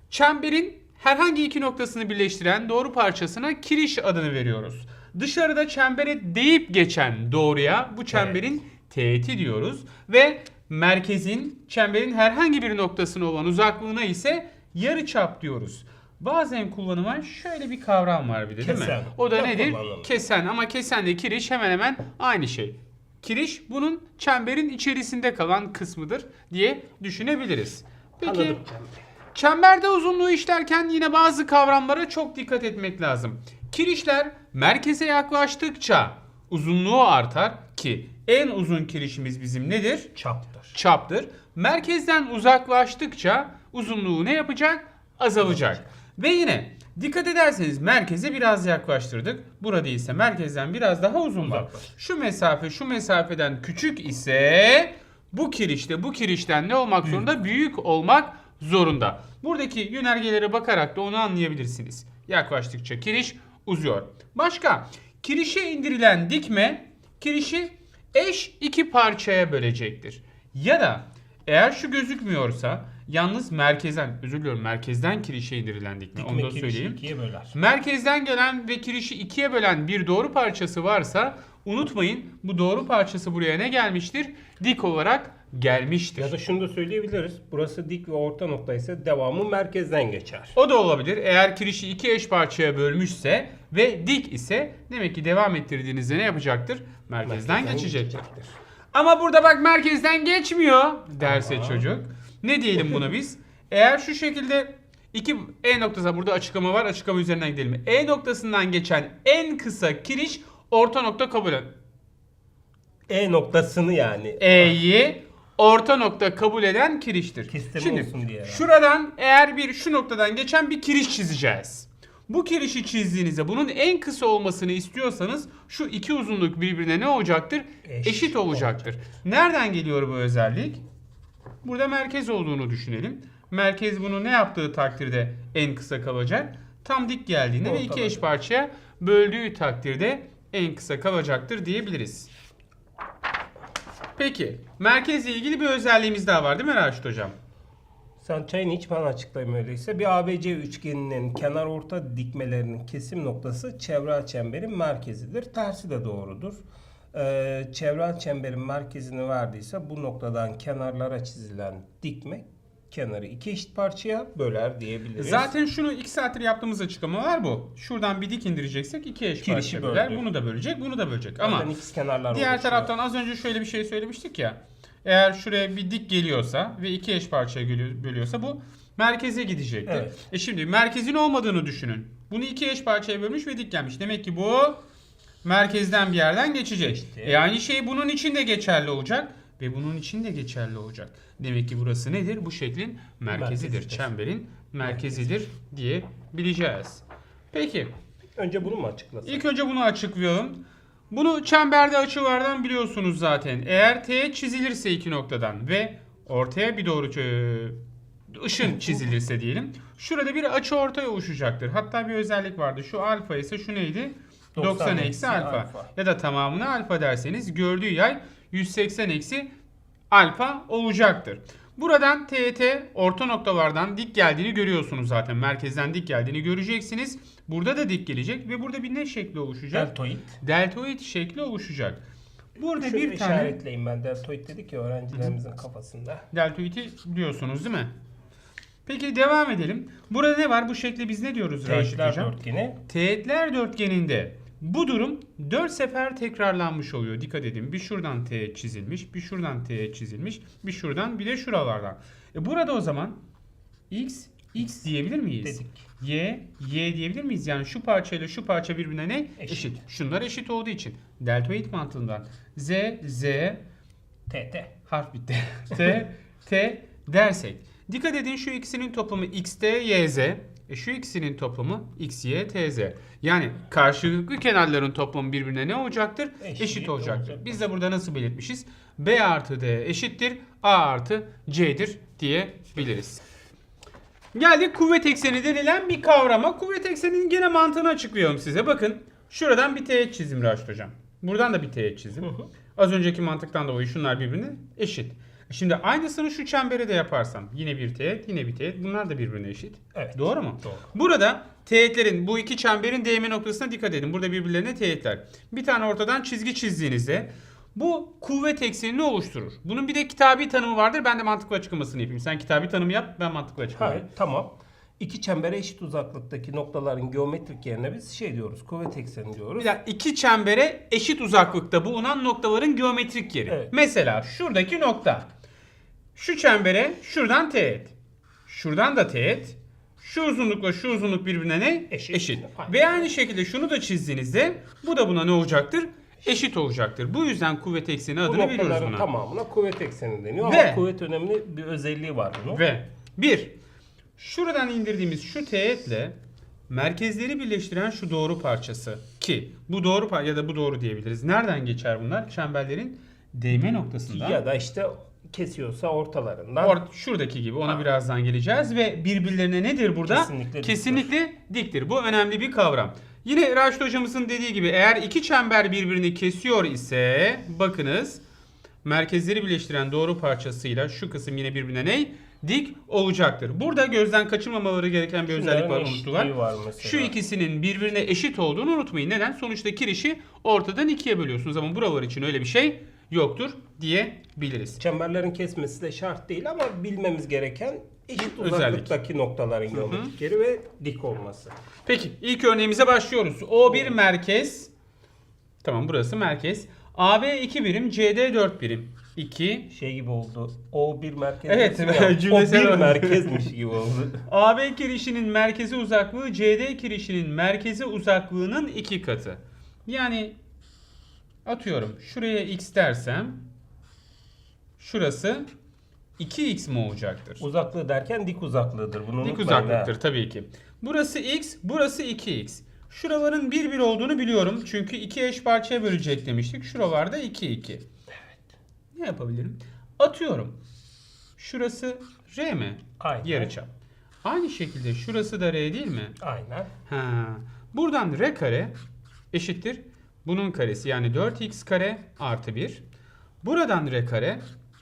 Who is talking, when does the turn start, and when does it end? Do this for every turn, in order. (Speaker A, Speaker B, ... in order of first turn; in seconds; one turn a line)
Speaker A: 0.1-28.6
Speaker B: 8.1-8.5
Speaker B: 18.6-20.1
Speaker B: 28.2-29.0
Speaker A: 29.3-40.1
Speaker B: 40.2-40.8
Speaker A: 40.7-77.0
Speaker B: 45.4-45.8
Speaker B: 51.4-51.9
Speaker B: 76.2-77.6
Speaker A: 77.5-86.3
Speaker B: 86.2-90.5
Speaker A: 90.5-98.2
Speaker B: 97.2-98.6
Speaker A: 98.9-111.7
Speaker B: 101.2-101.9
Speaker B: 102.8-103.1
Speaker B: 113.1-114.8
Speaker A: 114.4-130.8
Speaker B: 117.5-118.7
Speaker B: 127.8-129.0
Speaker A: 131.6-142.3
Speaker B: 137.6-138.3
Speaker A: 144.2-147.4
Speaker B: 148.2-156.6
Speaker B: 157.1-165.5
Speaker A: 165.2-171.7
Speaker B: 169.4-170.3
Speaker B: 171.4-172.9
Speaker A: 172.3-184.8
Speaker B: 179.9-180.2
Speaker A: 185.4-197.9
Speaker B: 186.8-187.4
Speaker B: 193.3-194.1
Speaker B: 194.8-195.3
Speaker B: 198.4-199.4
Speaker A: 199.2-207.8
Speaker A: 208.3-219.5
Speaker B: 214.6-215.9
Speaker A: 220.1-232.1
Speaker B: 229.7-230.4
Speaker A: 232.6-233.6
Speaker B: 232.8-236.2
Speaker A: 236.3-237.9
Speaker A: 238.9-242.4
Speaker B: 241.7-242.8
Speaker A: 242.9-253.2
Speaker A: 253.9-263.6
Speaker B: 255.4-255.8
Speaker B: 259.4-259.8
Speaker B: 264.3-264.7
Speaker A: 264.9-283.2
Speaker B: 276.4-277.6
Speaker A: 284.3-314.1
Speaker B: 292.2-292.5
Speaker B: 299.9-300.9
Speaker B: 313.8-319.7
Speaker A: 319.6-325.3
Speaker B: 323.5-323.7
Speaker A: 326.1-327.9
Speaker A: 328.5-339.1
Speaker B: 331.9-333.1
Speaker B: 338.2-342.6
Speaker A: 340.4-340.8
Speaker A: 342.5-343.6
Speaker A: 344.2-346.2
Speaker A: 346.7-354.4
Speaker B: 354.1-356.8
Speaker A: 356.6-368.2
Speaker B: 360.1-361.1
Speaker A: 368.8-384.8
Speaker B: 375.3-377.1
Speaker B: 384.8-391.5
Speaker A: 388.2-388.9
Speaker A: 389.7-390.1
Speaker A: 391.9-394.7
Speaker B: 393.6-394.0
Speaker A: 395.6-399.7
Speaker B: 399.7-404.2
Speaker A: 401.5-403.5
Speaker A: 404.3-410.4
Speaker A: 411.4-413.4
Speaker A: 414.8-415.5
Speaker A: 416.2-417.4
Speaker B: 417.4-419.9
Speaker A: 419.2-427.9
Speaker A: 428.9-430.6
Speaker A: 431.4-433.7
Speaker B: 433.0-433.6
Speaker A: 434.2-436.1
Speaker B: 436.2-436.7
Speaker A: 436.9-438.8
Speaker A: 439.3-442.8
Speaker A: 443.4-444.4